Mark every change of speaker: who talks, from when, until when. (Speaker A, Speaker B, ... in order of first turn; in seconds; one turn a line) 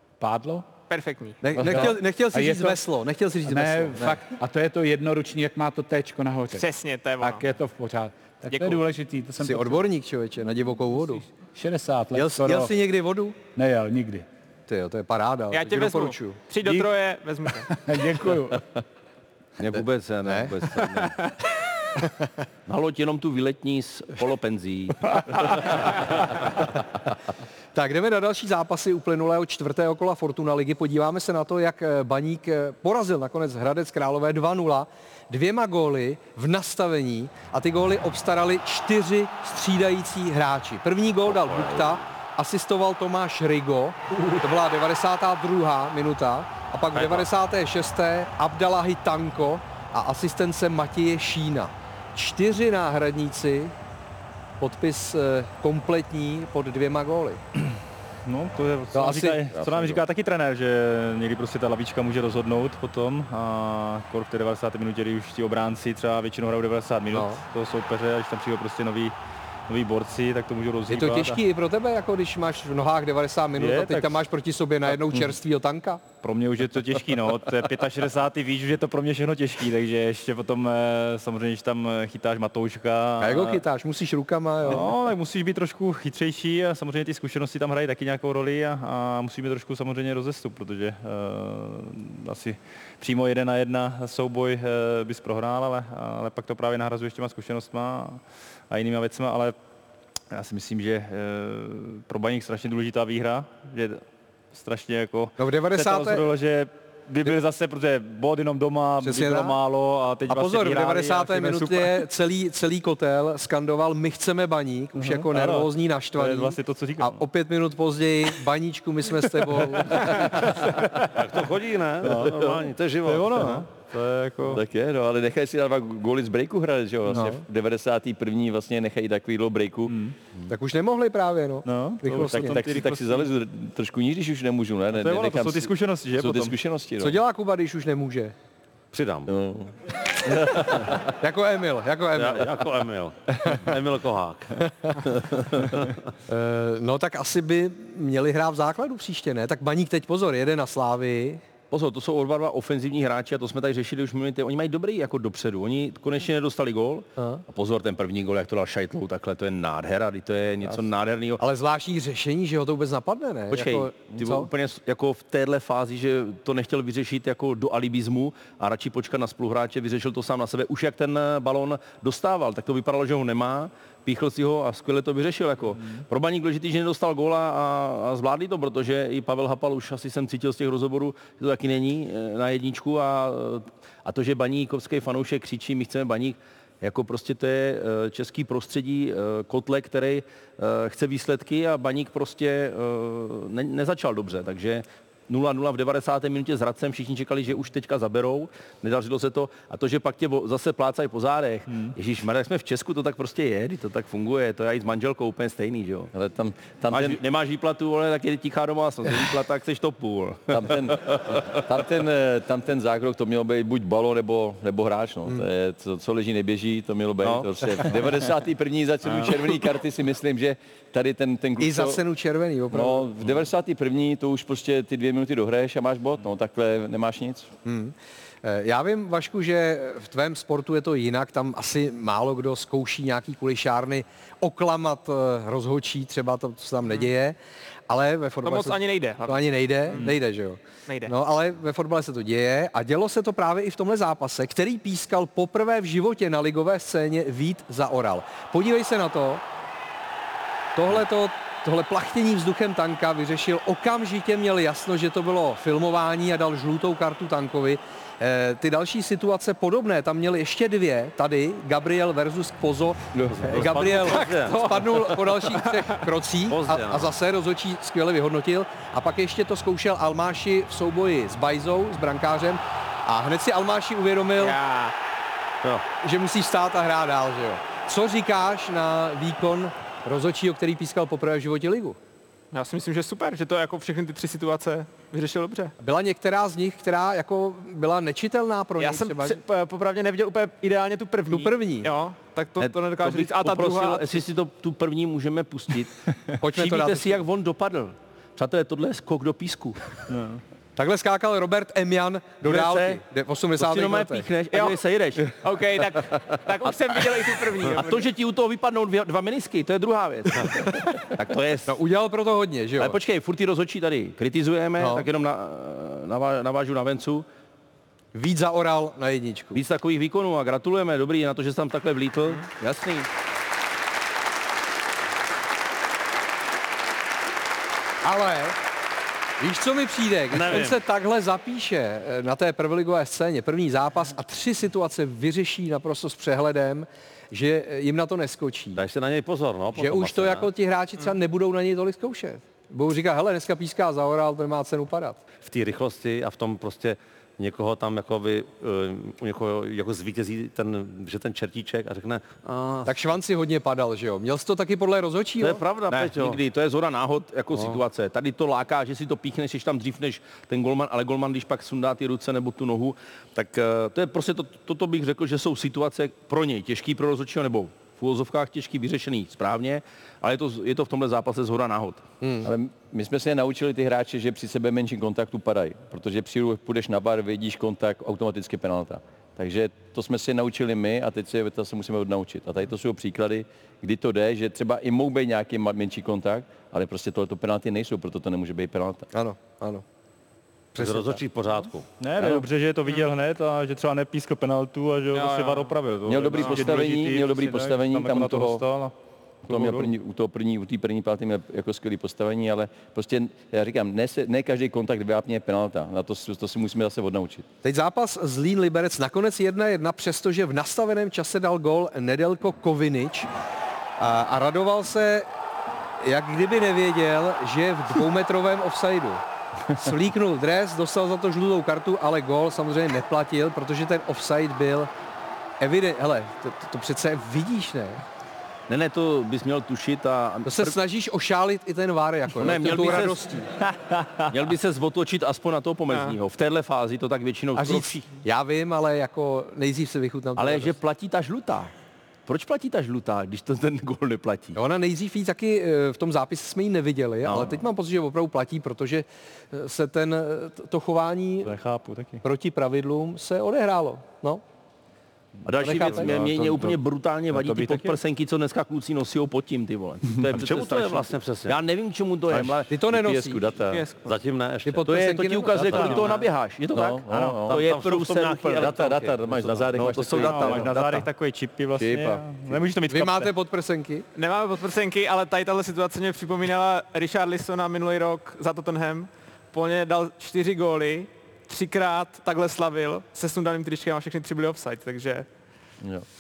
Speaker A: 0.2-0.7
Speaker B: 0.9-1.4
Speaker C: 1.4-4.2
Speaker A: 1.6-2.8
Speaker A: 3.5-6.7
Speaker B: 6.5-7.5
Speaker A: 7.2-9.8
Speaker B: 8.5-8.8
Speaker C: 9.4-11.3
Speaker A: 11.6-12.8
Speaker C: 12.2-13.4
Speaker A: 13.6-14.3
Speaker C: 14.7-16.4
Speaker B: 15.5-17.8
Speaker A: 17.8-18.8
Speaker D: 19.6-21.1
Speaker C: 20.3-20.7
Speaker D: 22.7-25.8
Speaker C: 27.8-53.7
Speaker E: 41.5-41.9
Speaker C: 54.6-57.4
Speaker F: 58.3-69.2
Speaker C: 58.9-59.4
Speaker G: 59.5-60.0
Speaker C: 67.1-67.4
Speaker F: 69.7-71.4
Speaker C: 70.9-76.0
Speaker F: 73.6-74.2
Speaker F: 76.2-83.6
Speaker C: 83.2-84.9
Speaker F: 84.7-99.6
Speaker F: 100.3-104.0
Speaker F: 104.5-112.0
Speaker C: 105.4-106.2
Speaker C: 109.0-109.6
Speaker C: 110.3-120.1
Speaker F: 115.0-117.2
Speaker F: 119.6-121.2
Speaker E: 121.0-123.6
Speaker F: 122.0-124.6
Speaker G: 124.5-130.0
Speaker C: 127.1-127.4
Speaker C: 130.5-132.7
Speaker F: 131.7-133.2
Speaker G: 132.1-137.2
Speaker F: 134.9-136.6
Speaker C: 137.0-138.3
Speaker E: 138.9-139.3
Speaker G: 139.3-139.7
Speaker C: 141.0-142.6
Speaker E: 142.1-144.6
Speaker E: 145.1-145.9
Speaker C: 146.3-151.4
Speaker D: 151.7-161.4
Speaker C: 157.2-157.4
Speaker C: 161.4-164.5
Speaker D: 163.5-206.1
Speaker F: 201.7-202.0
Speaker G: 206.1-207.2
Speaker D: 206.9-211.5
Speaker G: 210.5-222.0
Speaker D: 217.2-217.6
Speaker C: 221.6-223.1
Speaker G: 222.7-227.5
Speaker C: 227.7-237.4
Speaker C: 237.9-249.4
Speaker B: 238.4-240.2
Speaker B: 240.9-241.1
Speaker C: 250.8-274.6
Speaker E: 263.4-265.4
Speaker B: 265.6-265.9
Speaker E: 266.5-267.1
Speaker B: 274.4-274.9
Speaker C: 276.0-282.0
Speaker B: 282.5-285.7
Speaker C: 285.8-289.4
Speaker B: 288.8-294.3
Speaker C: 291.3-291.9
Speaker D: 292.6-299.8
Speaker C: 296.4-297.2
Speaker F: 300.1-300.4
Speaker C: 300.8-304.3
Speaker D: 302.4-303.0
Speaker D: 303.6-305.3
Speaker B: 304.5-304.8
Speaker B: 305.3-308.1
Speaker D: 307.7-311.8
Speaker C: 311.7-313.0
Speaker D: 312.8-317.2
Speaker C: 314.8-315.1
Speaker C: 318.1-319.6
Speaker D: 319.5-323.1
Speaker C: 328.0-328.6
Speaker C: 329.4-338.8
Speaker E: 330.3-330.8
Speaker E: 338.8-340.5
Speaker C: 339.8-345.2
Speaker E: 345.4-352.9
Speaker C: 352.9-355.6
Speaker E: 355.4-356.4
Speaker D: 355.9-372.1
Speaker G: 372.4-389.1
Speaker C: 389.1-389.8
Speaker C: 390.8-391.2
Speaker E: 390.8-391.9
Speaker F: 392.0-398.9
Speaker B: 395.1-395.8
Speaker G: 396.1-398.6
Speaker B: 396.3-396.8
Speaker F: 399.5-399.9
Speaker G: 399.5-407.5
Speaker C: 407.6-413.3
Speaker C: 414.0-415.3
Speaker C: 416.0-424.9
Speaker C: 425.6-428.0
Speaker D: 428.7-430.8
Speaker C: 430.4-433.5
Speaker D: 432.4-433.3
Speaker F: 433.7-434.3
Speaker D: 434.3-438.1
Speaker B: 435.9-436.2
Speaker C: 437.6-440.8
Speaker D: 440.4-441.7
Speaker D: 442.3-444.6
Speaker C: 444.6-451.5
Speaker D: 447.2-447.6
Speaker F: 451.4-452.2
Speaker C: 452.2-454.4
Speaker D: 455.5-462.7
Speaker C: 455.6-456.1
Speaker F: 455.9-456.8
Speaker F: 457.4-458.0
Speaker E: 460.3-461.6
Speaker G: 462.3-463.8
Speaker C: 462.7-463.4
Speaker B: 463.7-464.1
Speaker E: 464.0-464.9
Speaker C: 464.6-465.6
Speaker D: 464.9-468.9
Speaker E: 465.5-466.1
Speaker F: 465.6-466.2
Speaker G: 466.7-467.6
Speaker F: 467.1-467.4
Speaker E: 467.5-470.4
Speaker G: 468.6-470.8
Speaker D: 469.8-471.1
Speaker F: 470.1-473.3
Speaker G: 471.8-472.6
Speaker C: 472.9-474.1
Speaker B: 474.1-485.3